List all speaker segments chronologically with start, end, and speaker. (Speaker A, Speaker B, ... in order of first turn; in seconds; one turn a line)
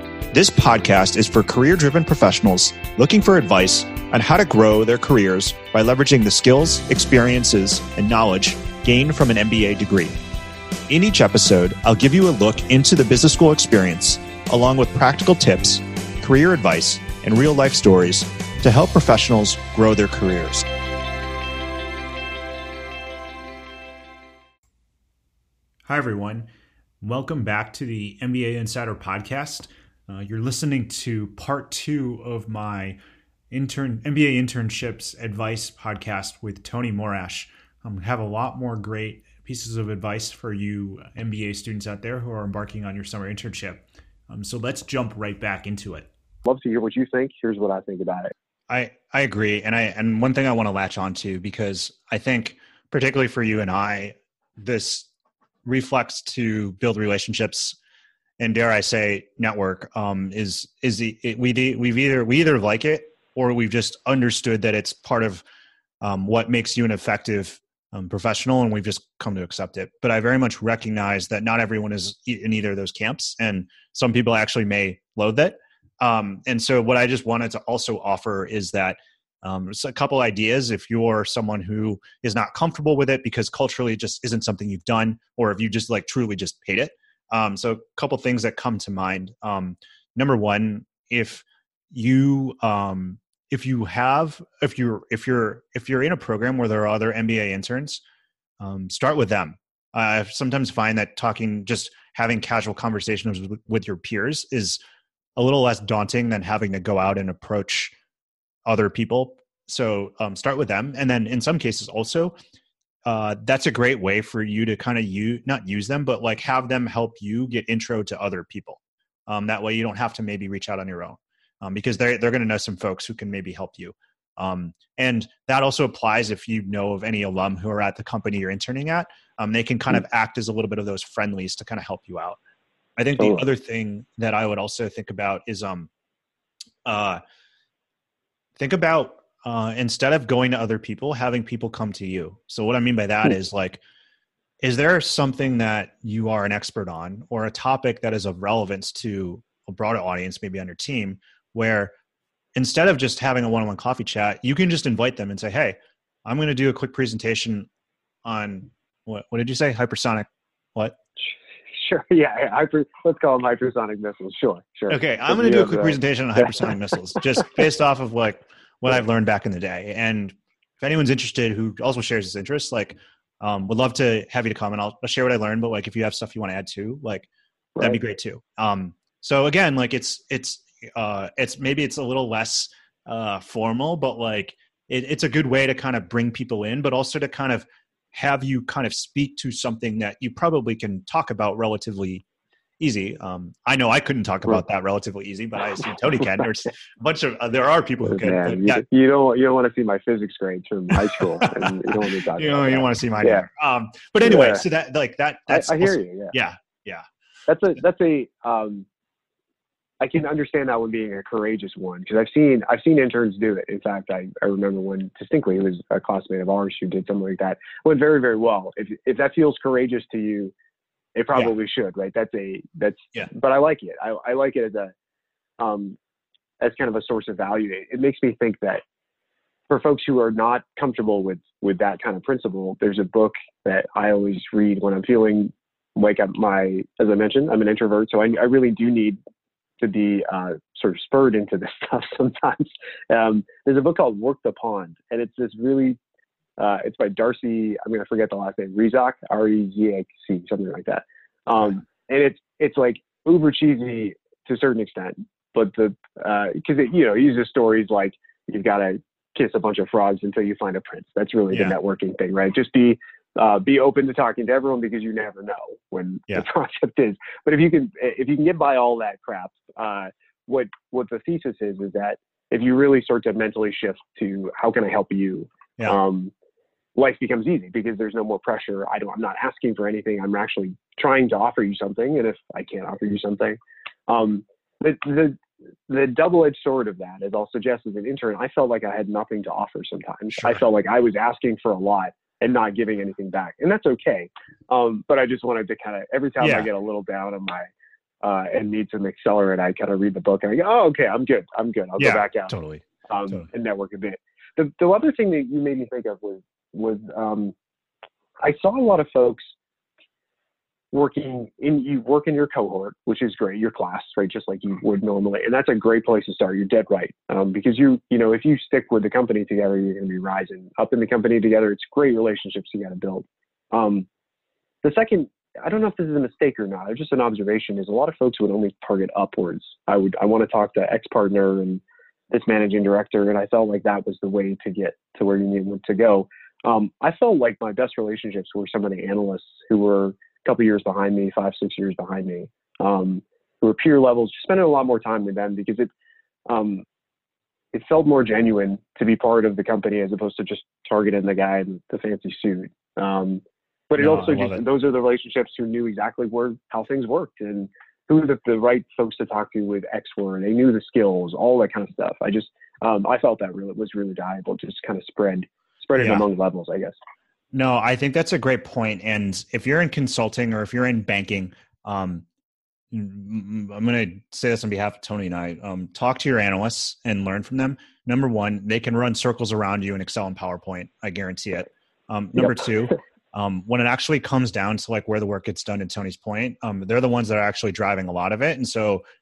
Speaker A: 0.3-10.2
Speaker A: 10.9-20.6
Speaker A: 25.9-26.5
Speaker A: 27.0-33.0
Speaker A: 33.5-46.1
Speaker B: 46.4-48.3
Speaker A: 48.7-55.1
Speaker A: 55.6-57.8
Speaker A: 58.4-65.4
Speaker A: 66.0-98.0
Speaker A: 98.6-104.8
Speaker A: 105.3-107.9
Speaker A: 108.7-112.3
Speaker A: 113.0-132.4
Speaker A: 133.0-135.9
Speaker B: 133.2-133.4
Speaker A: 136.8-137.2
Speaker A: 138.6-143.8
Speaker A: 144.6-151.9
Speaker A: 152.6-157.7
Speaker A: 158.2-161.0
Speaker B: 161.7-166.7
Speaker A: 164.9-177.3
Speaker A: 177.8-192.2
Speaker A: 192.8-198.8
Speaker B: 198.0-203.4
Speaker A: 201.1-201.6
Speaker A: 202.3-207.0
Speaker B: 204.2-204.6
Speaker B: 205.5-206.3
Speaker B: 207.5-208.9
Speaker B: 210.0-220.5
Speaker B: 221.2-224.9
Speaker B: 225.6-226.0
Speaker B: 226.6-228.8
Speaker B: 229.7-239.2
Speaker B: 239.8-246.0
Speaker B: 246.6-276.3
Speaker B: 276.9-297.7
Speaker A: 290.3-290.6
Speaker A: 296.4-296.7
Speaker B: 298.2-302.5
Speaker A: 302.0-303.5
Speaker B: 303.1-307.5
Speaker B: 308.4-309.5
Speaker B: 310.9-324.1
Speaker B: 324.8-345.9
Speaker B: 346.5-346.8
Speaker B: 347.7-366.9
Speaker A: 354.0-354.6
Speaker A: 365.9-366.2
Speaker A: 367.5-372.2
Speaker A: 372.9-389.0